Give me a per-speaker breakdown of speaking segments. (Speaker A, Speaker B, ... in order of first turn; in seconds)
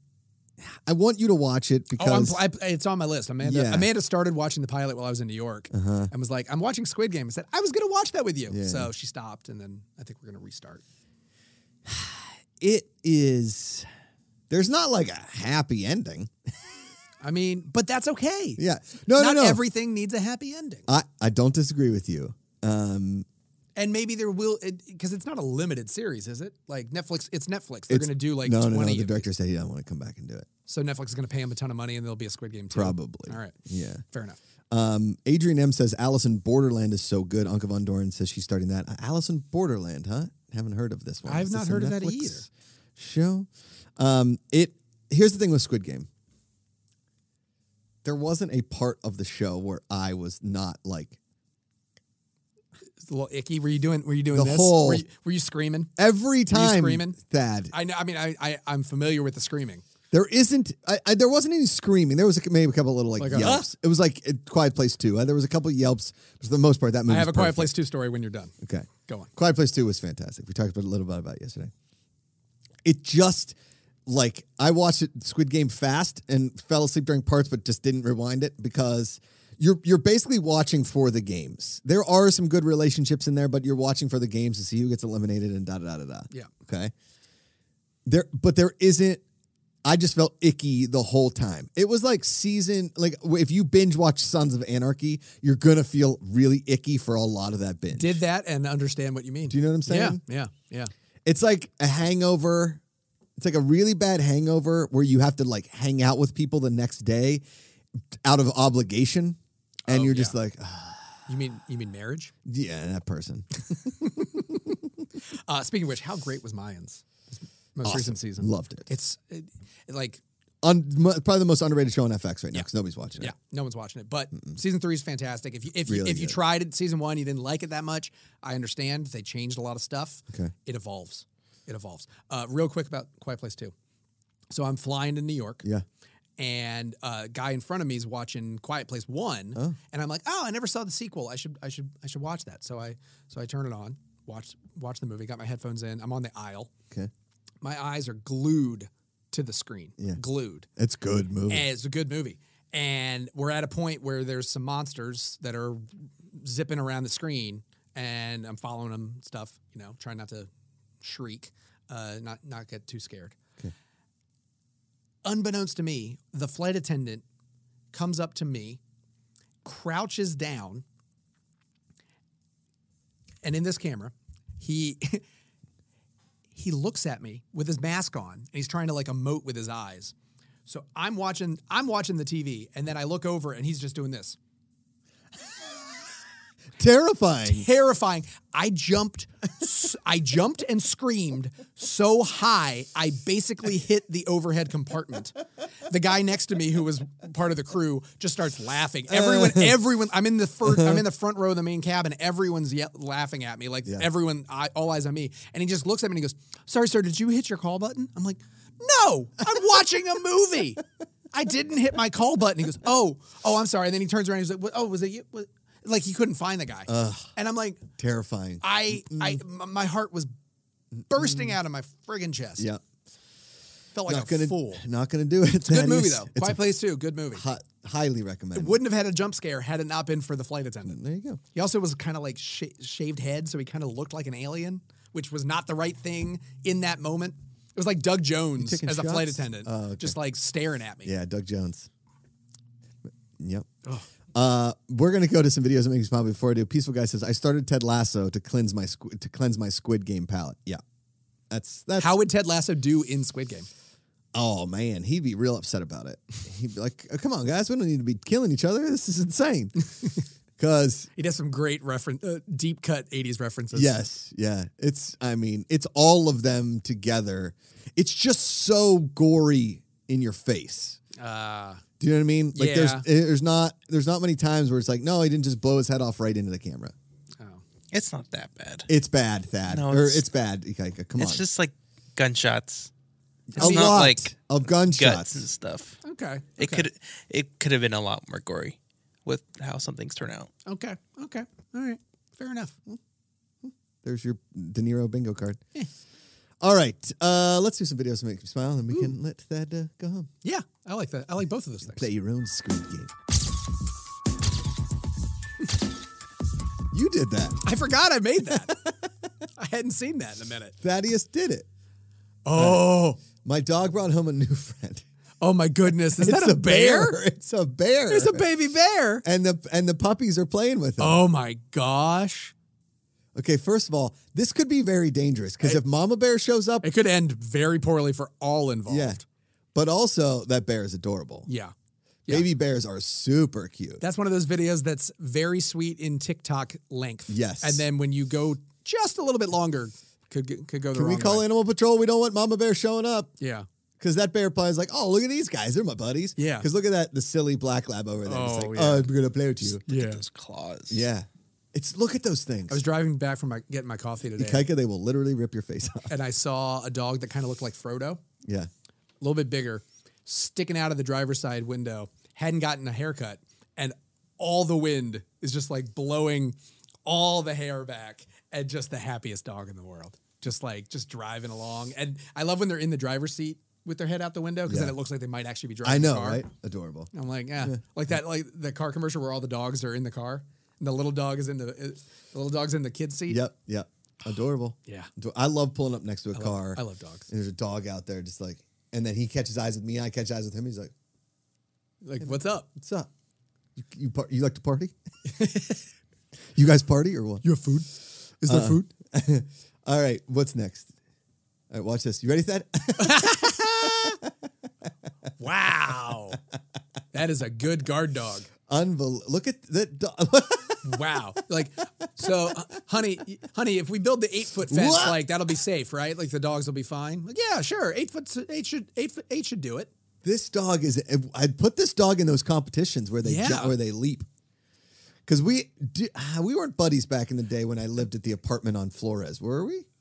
Speaker A: 0.6-2.4, 3.4-3.9, 5.7-6.1, 8.5-8.9, 11.8-13.9, 14.5-16.3, 18.6-19.6, 20.9-23.2, 27.9-30.5, 32.7-34.0, 34.7-46.1, 48.0-51.2, 54.3-55.0, 56.0-57.7, 60.1-67.7, 68.6-71.7, 72.8-86.9, 88.0-89.2, 89.8-98.2, 99.5-100.2, 101.2-102.8, 103.4-107.4, 108.2-111.2, 112.4-114.8, 117.8-118.9, 120.6-123.3, 125.8-126.4, 150.8-151.7, 186.8-187.7, 199.1-199.8, 200.7-201.0, 216.9-217.3, 218.0-219.4, 221.0-221.5, 224.1-226.7, 227.3-228.8, 230.9-231.4, 238.6-240.2, 241.0-241.9, 243.4-243.7, 244.3-250.8, 251.5-252.2, 254.3-259.7, 260.6-261.1, 263.7-271.0, 272.0-276.9, 278.9-281.4, 283.5-285.4, 293.6-295.6, 296.6-300.3, 301.9-303.1, 306.9-307.6, 310.8-311.7, 312.5-315.0, 316.1-318.5, 319.2-321.2, 323.3-326.9, 328.9-329.2, 329.7-331.5, 332.3-334.0, 337.3-337.8, 340.9-343.3, 344.0-349.8, 350.9-352.8, 354.4-356.1, 358.4-358.7, 374.7-374.9, 375.8-377.8, 383.3-390.9, 392.7-393.1, 393.8-394.9, 396.6-397.4, 398.4-400.9, 401.7-404.3, 408.7-411.0, 412.2-412.5, 414.7-415.2, 420.2-424.2, 425.2-429.9
Speaker B: 1.9-10.8, 17.2-18.6, 19.1-20.9, 23.8-29.3, 30.7-33.5, 34.1-34.4, 41.2-42.5, 53.0-55.9, 56.5-57.2, 57.7-59.8, 63.2-63.7, 67.1-68.5, 97.9-100.9, 109.9-110.3, 111.3-112.3, 114.0-114.5, 115.5-120.2, 123.2-133.7, 134.5-135.6, 136.4-146.7, 147.6-150.7, 151.5-160.5, 161.0-163.4, 165.2-167.2, 167.9-168.8, 169.6-170.8, 173.4-175.2, 176.5-180.1, 180.7-184.4, 187.4-217.9, 218.6-220.3, 221.1-222.7, 223.9-224.8, 225.6-227.4, 228.5-231.0, 231.5-241.1, 252.0-253.7, 261.1-264.0, 271.1-271.8, 272.5-273.1, 283.6-284.0, 286.0-286.9, 290.6-292.8, 298.9-299.1, 300.4-302.1, 307.6-308.8, 309.6-310.7, 312.4-313.2, 315.4-317.2, 318.1-319.2, 321.0-322.5, 326.8-329.2, 331.4-331.7, 334.0-341.5, 343.4-343.6, 346.4-346.7, 348.2-349.1, 349.9-350.2, 352.7-354.7, 356.1-358.2, 359.2-376.4, 377.1-383.4, 386.3-387.3, 392.0-392.7, 395.2-395.8, 397.4-397.9, 398.4-398.9, 403.0-403.9, 405.4-406.4, 407.1-408.5, 410.8-419.9, 423.2-423.8
Speaker C: 277.9-278.9, 279.6-280.3, 281.2-282.9, 283.6-286.0, 286.6-290.5, 349.8-351.0